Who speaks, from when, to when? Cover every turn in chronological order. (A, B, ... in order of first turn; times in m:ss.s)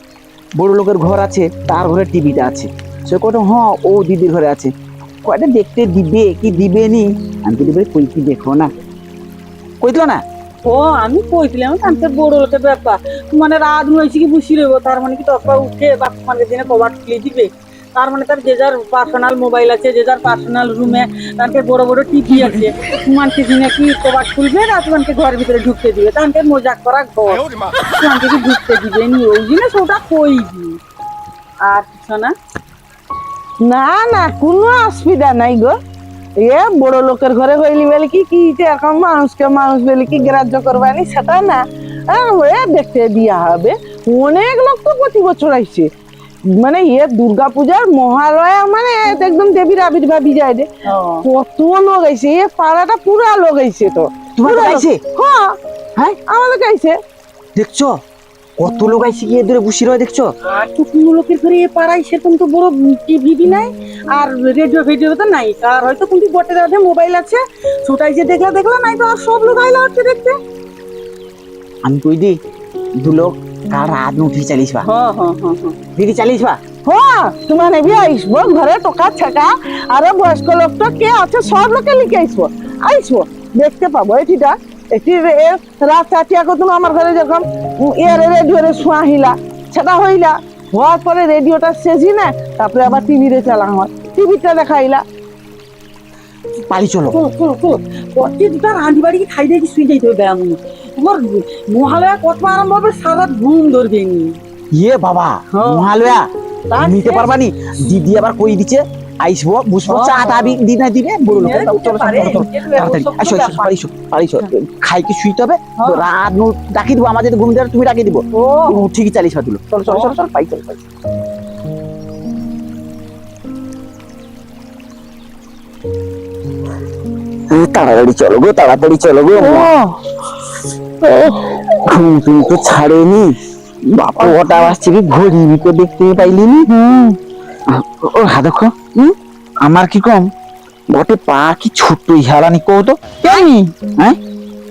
0:00.6-0:04.7 A
0:05.2-0:08.7 A
0:09.8-0:10.2 A
0:10.6-0:30.8 B
0:31.6-0:32.3 B
0:33.6-0:35.8 C
0:36.4-0:45.9 C
0:46.6-0:50.7 C
0:50.8-0:51.3 B
0:51.2-0:55.6 C
0:54.4-0:55.0 A
0:56.3-0:57.0 C
0:57.6-0:57.9 A
0:58.6-1:00.3 A
1:00.5-1:10.4 B
1:11.8-1:12.4 A
1:13.0-1:14.9 A
1:14.8-1:15.8 B
1:16.0-1:16.6 A
1:16.8-1:35.0 C
1:36.7-1:37.2 A
1:37.1-1:44.4 B
1:44.7-2:00.9 A
1:45.5-1:45.9 B
1:46.7-1:47.4 B
1:49.9-1:50.6 B
1:51.3-1:53.7 B
1:55.8-1:56.0 B
1:58.3-1:58.8 B
1:59.9-2:00.1 B
2:07.5-2:09.7 A
2:09.4-2:09.9 B
2:11.1-2:11.6 B
2:11.8-2:13.3 A
2:13.9-2:16.7 A
2:14.2-2:14.7 B
2:16.6-2:17.2 B
2:17.7-2:20.3 A
2:20.9-2:23.0 A
2:23.2-2:23.7 B